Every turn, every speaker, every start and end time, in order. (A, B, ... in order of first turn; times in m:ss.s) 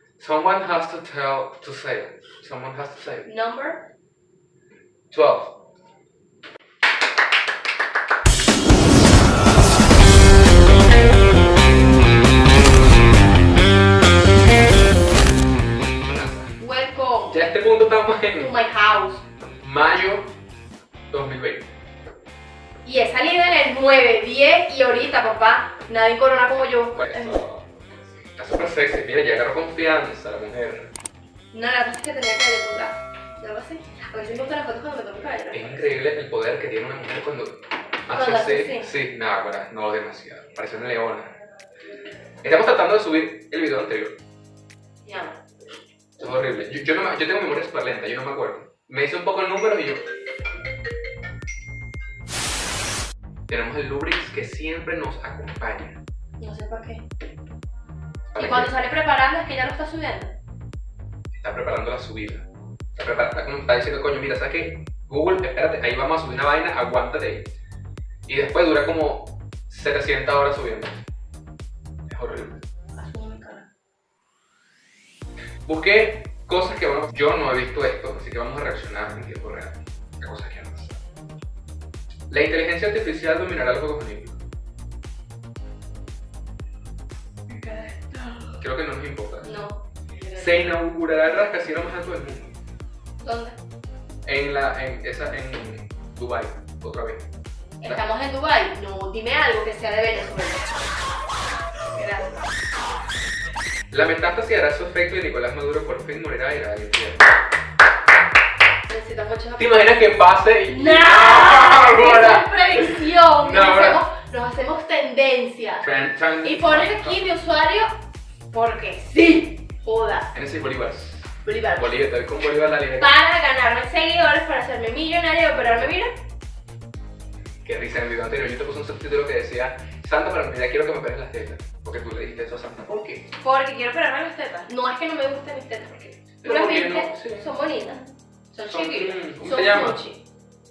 0:00.2-0:03.3 A
0:03.2-0:03.9 B
0:05.1-0:05.6 A
0:15.9-0:16.6 A
0:16.6-0:17.5 B
0:17.3-0:18.5 A
0:18.4-0:19.2 B
0:19.6-0:20.3 A
0:21.1-0:21.7 A
0:22.8-0:27.4 B
0:26.9-0:30.9 A
0:31.5-0:35.9 B
0:35.5-0:41.3 A
0:38.1-0:38.9 B
0:42.4-0:44.2 A
0:45.0-0:45.4 B
0:46.2-0:50.0 A
0:53.5-0:56.0 A
0:56.4-0:57.0 B
0:58.3-0:58.7 A
0:58.4-1:00.3 B
1:01.3-1:07.5 A
1:08.3-1:11.0 A
1:12.1-1:12.6 A
1:12.9-1:13.7 B
1:15.6-1:21.0 A
1:22.3-1:24.4 A
1:27.5-1:28.6 B
1:28.6-1:29.6 A
1:29.4-1:30.8 B
1:30.3-1:32.6 A
1:33.2-1:33.6 B
1:34.2-1:37.2 A
1:37.8-1:40.8 B
1:41.9-1:42.4 B
1:43.9-1:47.3 A
1:48.9-1:49.9 B
1:49.6-1:54.0 A
1:50.7-1:57.9 B
1:55.8-1:57.2 A
1:58.5-2:00.3 B
2:00.3-2:03.1 A
2:01.4-2:01.9 B
2:03.0-2:06.1 B
2:07.6-2:13.3 A
2:13.3-2:20.2 B
2:16.4-2:17.5 A
2:18.7-2:20.0 A